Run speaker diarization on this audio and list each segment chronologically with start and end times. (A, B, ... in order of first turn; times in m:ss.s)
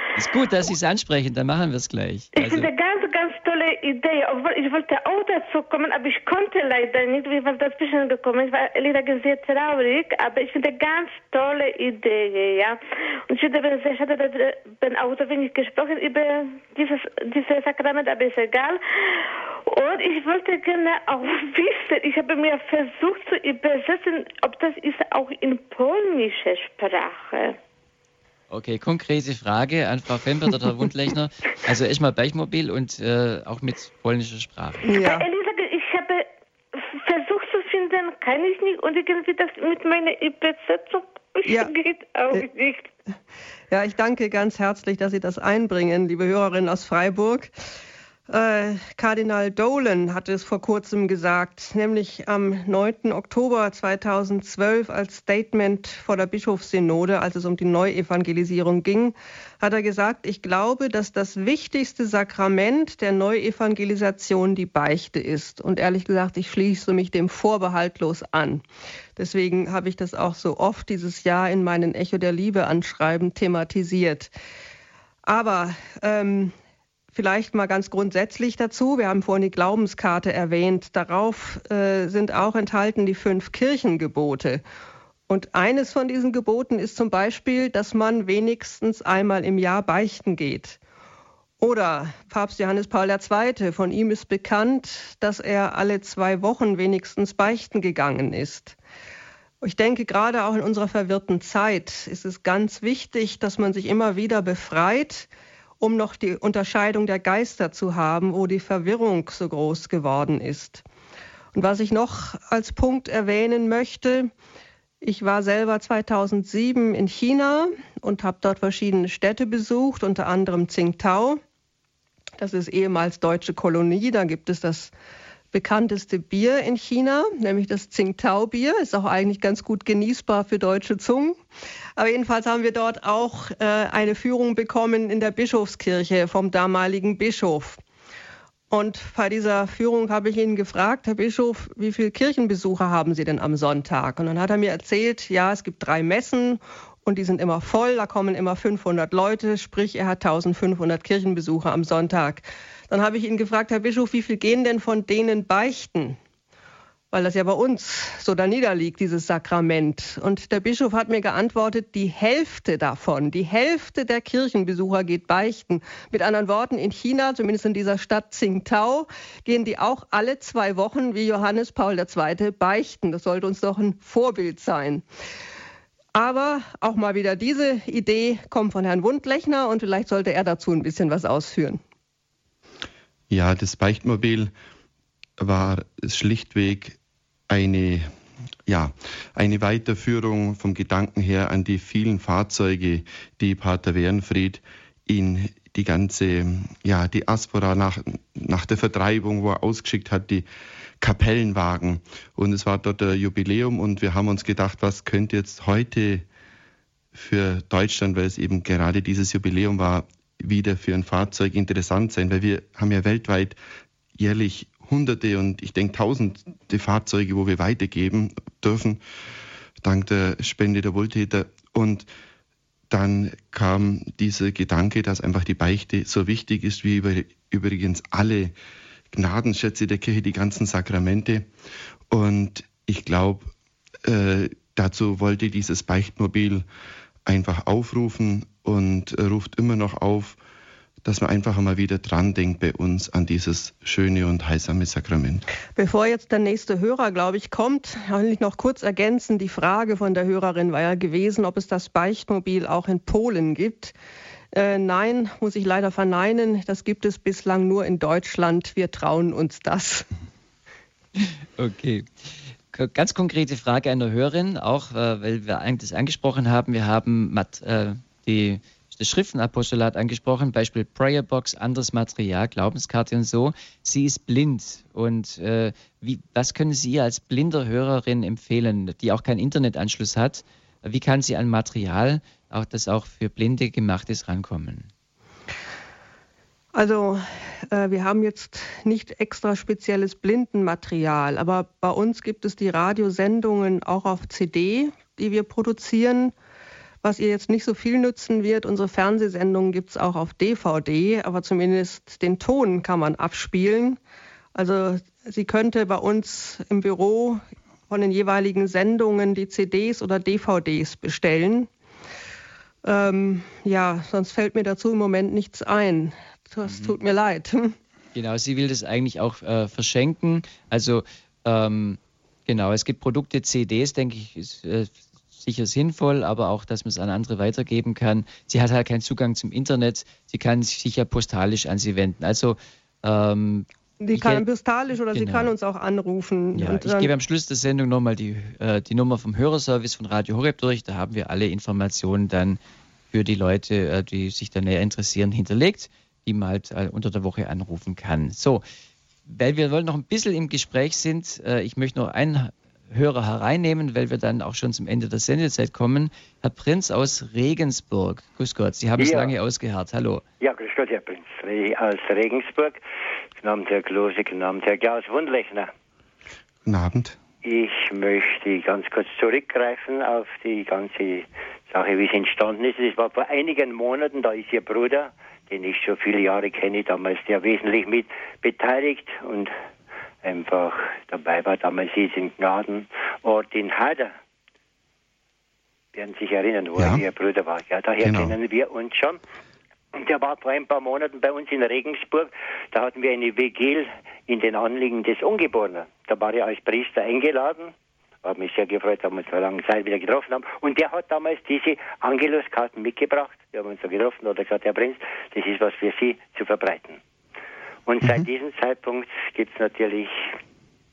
0:00.1-0:02.7 A
0:02.3-0:27.6 B
0:28.5-0:34.9 A
0:34.9-0:35.2 C
0:34.9-0:36.2 B
0:36.8-0:42.9 B
0:41.4-0:41.7 C
0:43.7-0:47.5 C
0:48.3-1:08.6 C
1:09.2-1:14.3 C
1:15.2-1:16.5 C
1:17.1-1:24.6 C
1:25.3-1:30.8 C
1:31.6-1:38.8 C
1:39.6-1:45.3 C
1:45.8-1:50.8 C
1:51.5-1:54.3 C
1:55.0-2:01.4 C
2:02.4-2:04.9 C
2:05.5-2:11.4 C
2:12.0-2:17.8 C
2:18.7-2:36.2 C
2:37.1-2:55.0 C
2:56.1-3:01.8 C
3:03.3-3:04.5 D
3:05.4-3:07.0 D
3:07.5-3:08.1 D
3:08.6-3:20.5 D
3:21.0-3:26.2 D
3:27.1-3:33.6 D
3:34.2-3:39.0 D
3:39.8-3:42.1 D
3:42.9-3:48.5 D
3:49.1-3:51.5 D
3:52.1-3:53.5 D
3:54.0-3:56.6 D
3:57.2-4:00.4 D
4:01.0-4:05.4 D
4:05.8-4:13.9 C
4:14.5-4:20.1 C
4:21.2-4:22.1 A
4:22.7-4:44.9 A
4:46.7-4:56.3 C
4:57.0-5:04.0 C
5:04.5-5:11.7 C
5:12.8-5:17.8 C
5:16.6-5:17.0 A
5:18.1-5:34.4 A
5:34.0-5:37.1 C
5:35.1-5:35.5 A
5:36.5-5:42.6 A
5:43.1-5:48.6 A
5:49.3-6:00.2 A
5:59.0-5:59.3 E
6:00.4-6:02.8 E
6:03.4-6:05.7 E
6:06.6-6:07.2 D
6:07.4-6:19.5 E
6:20.2-6:24.1 E
6:25.9-6:29.2 E
6:26.8-6:27.0 D
6:28.0-6:28.4 D
6:29.9-6:47.0 E
6:47.8-6:50.3 E